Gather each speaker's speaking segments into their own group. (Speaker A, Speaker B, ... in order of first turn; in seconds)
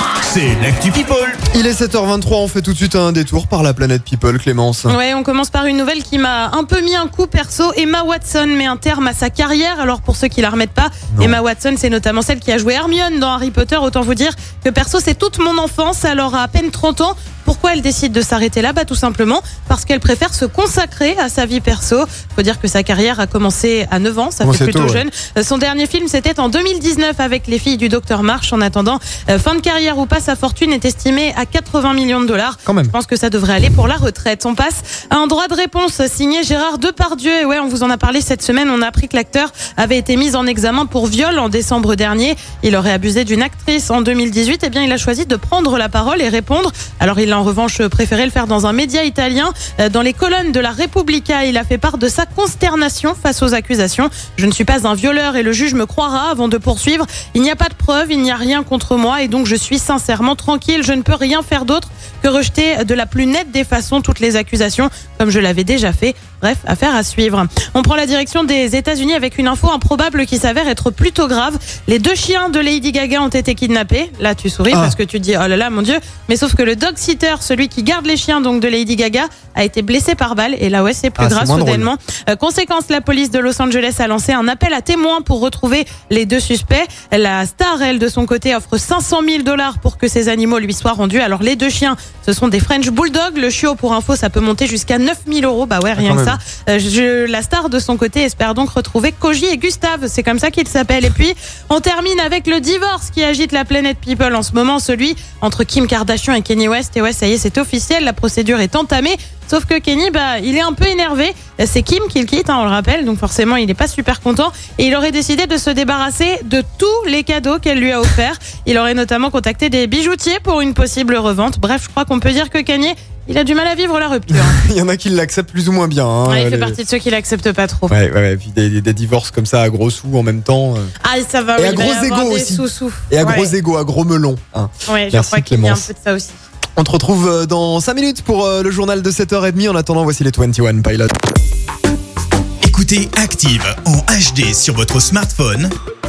Speaker A: 0.2-1.4, 142.6-145.7
Speaker B: 1.5-5.0, 24.4-25.0, 32.6-32.9, 74.7-75.0, 81.2-81.9, 95.9-96.4, 124.3-126.8, 127.9-130.9, 131.6-135.9, 136.8-141.1
Speaker C: 4.9-124.6, 126.3-127.9, 131.0-133.5, 134.9-136.4